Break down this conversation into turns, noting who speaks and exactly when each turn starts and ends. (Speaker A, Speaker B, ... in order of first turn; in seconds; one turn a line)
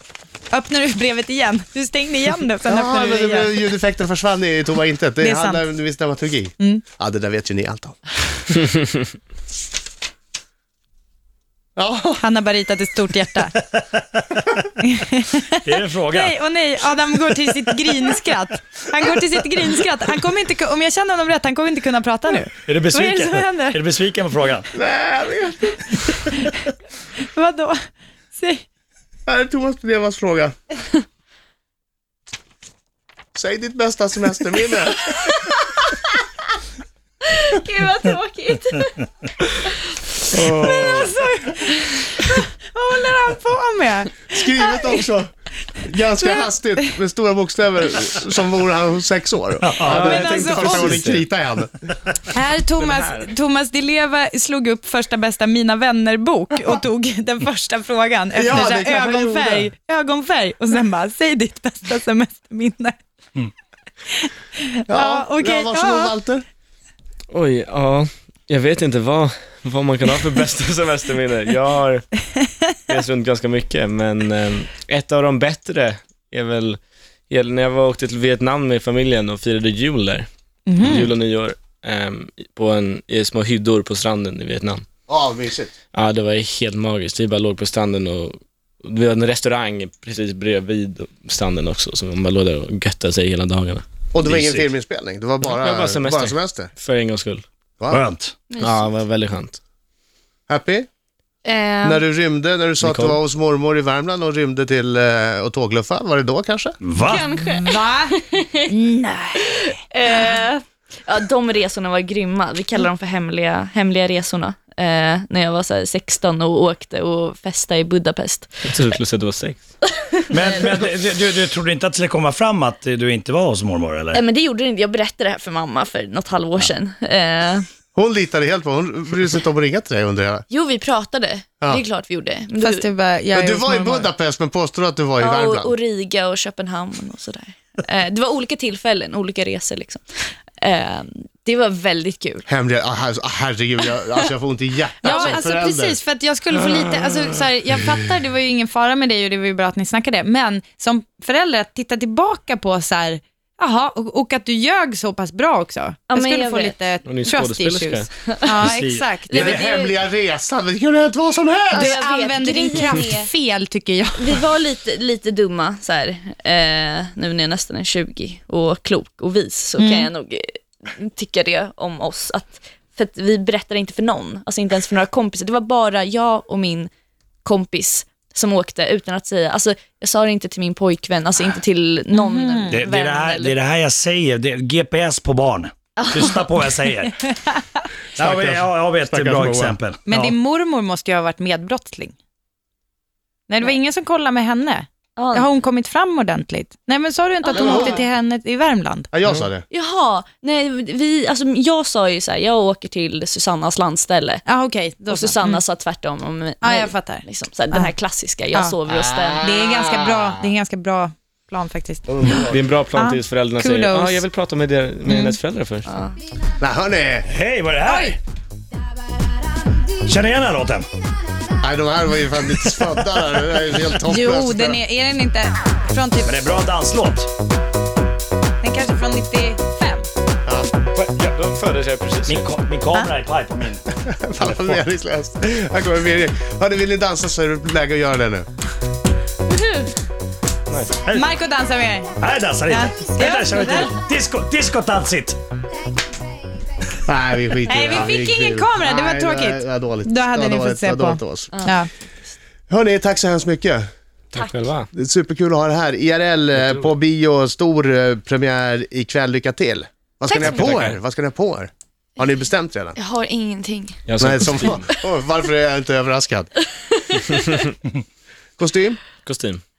Speaker A: 0.5-3.6
Speaker B: 2.6-8.0
Speaker A: 5.2-5.6
Speaker B: 11.8-12.2
Speaker A: 12.2-13.5
Speaker C: 13.6-14.4
Speaker A: 14.8-23.8
Speaker C: 15.6-16.4
Speaker C: 22.7-24.7
Speaker B: 24.7-25.9
Speaker A: 27.3-28.6
Speaker B: 29.2-30.5
Speaker B: 33.3-35.2
Speaker D: 37.2-39.1
Speaker E: 40.3-41.0
Speaker A: 40.5-45.0
Speaker B: 44.3-51.7
Speaker C: 49.6-50.1
Speaker E: 49.8-51.2
Speaker A: 49.9-51.0
Speaker A: 52.3-63.0
Speaker E: 52.8-53.3
Speaker B: 58.3-59.7
Speaker A: 64.2-66.1
Speaker B: 64.9-66.4
Speaker E: 67.3-72.2
Speaker E: 72.9-76.8
Speaker E: 77.3-80.3
Speaker A: 80.7-81.1
Speaker E: 80.8-84.8
Speaker B: 85.1-85.7
Speaker E: 85.9-93.8
Speaker B: 94.1-96.7
Speaker C: 94.2-94.6
Speaker E: 95.4-97.4
Speaker C: 97.9-98.3
Speaker D: 98.5-98.9
Speaker E: 98.6-99.6
Speaker B: 100.5-100.9
Speaker D: 101.4-102.0
Speaker B: 101.8-106.8
Speaker E: 102.8-103.2
Speaker C: 106.8-107.4
Speaker D: 107.0-108.7
Speaker A: 107.5-110.3
Speaker D: 109.5-118.7
Speaker E: 118.7-119.6
Speaker D: 120.0-120.7
Speaker C: 120.3-124.2
Speaker D: 124.1-127.7
Speaker B: 127.9-130.4
Speaker D: 130.5-132.8
Speaker A: 132.6-134.1
Speaker B: 133.3-135.8
Speaker D: 135.2-142.4
Speaker B: 142.5-146.0
Speaker D: 145.0-145.4
Speaker A: 145.0-159.4
Speaker D: 156.1-156.7
Speaker E: 157.1-158.1
Speaker D: 158.2-158.6
Speaker C: 158.6-159.6
Speaker D: 159.3-159.9
Speaker B: 159.3-162.0
Speaker D: 161.7-163.3
Speaker A: 161.7-164.3
Speaker D: 164.2-176.9
Speaker A: 169.8-170.1
Speaker D: 177.4-183.6
Speaker A: 182.1-182.8
Speaker C: 182.7-187.2
Speaker D: 186.0-186.8
Speaker C: 188.2-190.3
Speaker B: 188.2-189.8
Speaker A: 190.1-192.1
Speaker A: 193.5-199.1
Speaker D: 195.2-195.4
Speaker D: 197.4-198.0
Speaker B: 197.5-198.0
Speaker B: 199.1-199.6
Speaker D: 199.7-204.4
Speaker A: 204.4-205.6
Speaker D: 205.1-209.5
Speaker A: 206.6-207.9
Speaker B: 208.9-210.5
Speaker A: 209.4-212.4
Speaker B: 212.1-212.6
Speaker E: 212.5-215.9
Speaker A: 212.9-214.2
Speaker A: 215.1-215.4
Speaker D: 215.9-216.2
Speaker B: 216.6-217.3
Speaker C: 217.2-218.2
Speaker A: 217.8-218.2
Speaker C: 220.0-220.9
Speaker B: 221.6-224.8
Speaker A: 224.1-226.4
Speaker C: 226.2-227.3
Speaker A: 228.6-230.1
Speaker E: 230.9-232.4
Speaker C: 232.3-233.9
Speaker B: 234.0-238.5
Speaker C: 234.4-234.8
Speaker D: 239.5-239.9
Speaker E: 240.7-241.0
Speaker C: 241.0-241.3
Speaker A: 241.1-242.2
Speaker C: 242.2-245.4
Speaker A: 242.7-243.9
Speaker B: 247.0-251.5
Speaker A: 247.7-251.9
Speaker D: 247.7-248.0
Speaker D: 251.5-251.8
Speaker B: 252.7-253.9
Speaker E: 254.3-254.9
Speaker B: 254.9-263.0
Speaker E: 256.6-256.9
Speaker D: 260.3-260.6
Speaker E: 260.4-261.0
Speaker D: 262.9-264.9
Speaker E: 264.1-264.8
Speaker B: 264.2-266.5
Speaker D: 267.1-267.4
Speaker B: 268.6-269.0
Speaker E: 269.2-269.6